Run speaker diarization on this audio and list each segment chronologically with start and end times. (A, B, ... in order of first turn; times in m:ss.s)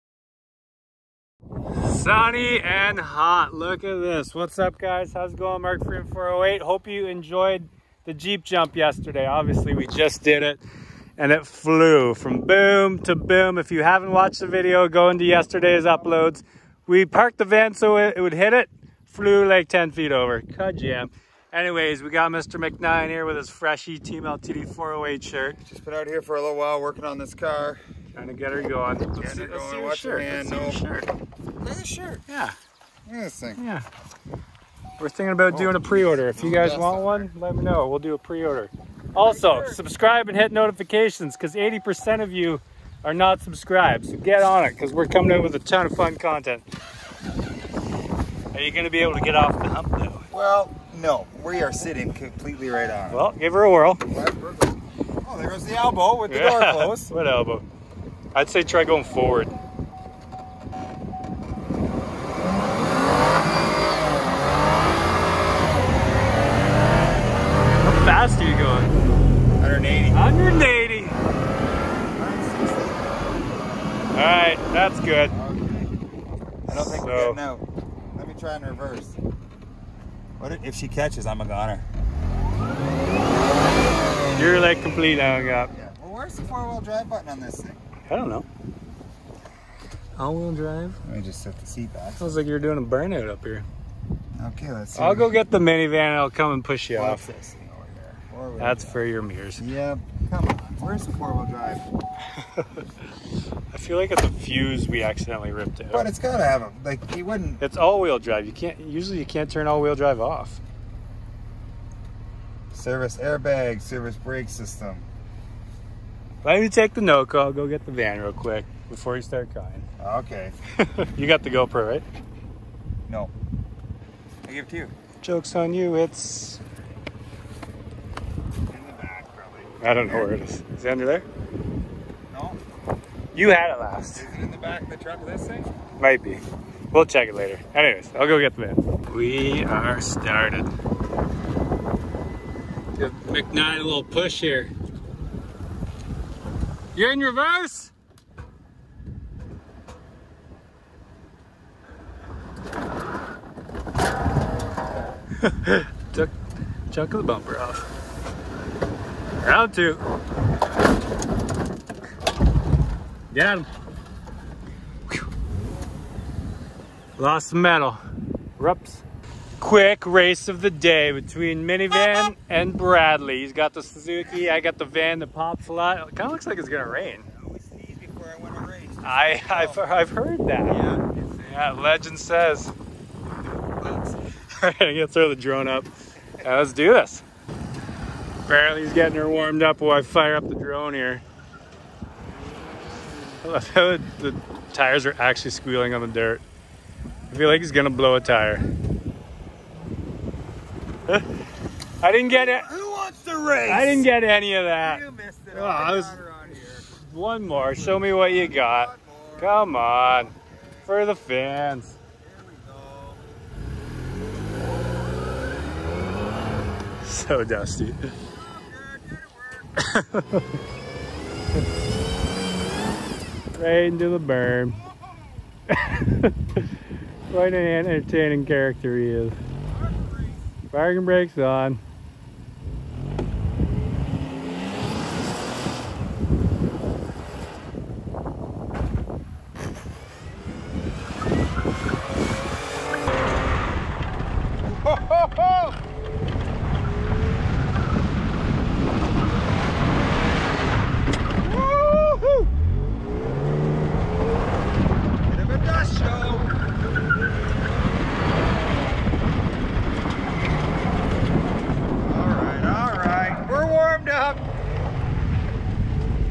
0:01.8-0:10.6 A
0:11.2-0:25.6 A
0:25.7-0:27.8 B
0:28.1-0:31.1 A
0:29.1-0:30.8 B
0:31.6-0:32.2 B
0:32.3-0:32.6 A
0:33.1-0:33.6 B
0:33.6-0:33.8 A
0:35.0-0:46.6 A
0:35.5-0:35.8 B
0:36.4-0:37.3 B
0:39.2-0:39.8 B
0:48.5-0:50.3 A
0:50.3-0:53.2 B
0:53.1-0:54.0 A
0:54.1-0:57.1 B
0:56.3-0:57.7 A
0:58.3-0:59.5 A
1:07.8-1:08.9 A
1:09.6-1:10.4 B
1:10.1-1:11.2 A
1:12.1-1:13.4 B
1:14.1-1:15.3 A
1:15.3-1:16.0 B
1:16.7-1:19.2 B
1:16.7-1:17.4 A
1:20.4-1:21.9 B
1:24.4-1:25.7 A
1:25.7-1:27.8 B
1:28.1-1:28.5 A
1:30.2-1:31.0 A
1:31.0-1:32.4 B
1:32.2-1:33.7 A
1:34.3-1:35.3 B
1:35.0-1:37.2 A
1:36.9-1:39.0 B
1:38.6-1:39.6 A
1:39.6-1:42.0 B
1:43.7-1:46.1 A
1:45.9-1:47.6 B
1:47.6-1:50.6 A
1:52.7-1:55.1 B
1:56.4-1:59.9 A
2:00.0-2:00.6 B
2:01.0-2:02.0 A
2:04.4-2:04.9 B
2:05.2-2:06.6 A
2:08.7-2:10.3 B
2:09.8-2:11.2 A
2:12.3-2:12.6 B
2:13.3-2:14.3 A
2:14.1-2:15.7 B
2:16.0-2:20.7 A
2:23.0-2:24.7 A
2:27.0-2:27.9 A
2:35.4-2:36.3 A
2:36.9-2:37.8 A
2:39.4-2:40.0 A
2:43.3-2:43.7 A
2:47.2-2:48.0 A
2:48.6-2:49.0 A
2:49.6-2:57.3 A
2:57.2-3:00.0 B
2:59.0-3:02.7 A
3:00.7-3:01.3 B
3:03.8-3:04.2 B
3:04.5-3:05.9 A
3:06.4-3:07.2 A
3:08.5-3:11.2 A
3:13.4-3:16.4 A
3:17.3-3:18.8 B
3:17.3-3:18.6 A
3:22.0-3:22.7 A
3:22.2-3:24.1 B
3:23.7-3:26.2 A
3:24.8-3:26.9 B
3:26.9-3:30.3 A
3:27.5-3:30.9 B
3:30.9-3:32.0 A
3:32.2-3:33.3 B
3:37.0-3:38.1 A
3:38.3-3:39.7 B
3:39.8-3:40.4 A
3:43.6-3:44.8 A
3:45.7-3:46.7 A
3:47.3-3:49.4 A
3:49.7-3:50.4 B
3:50.7-3:51.8 A
4:04.7-4:05.8 B
4:11.4-4:12.5 B
4:15.3-4:16.5 B
4:22.0-4:24.5 B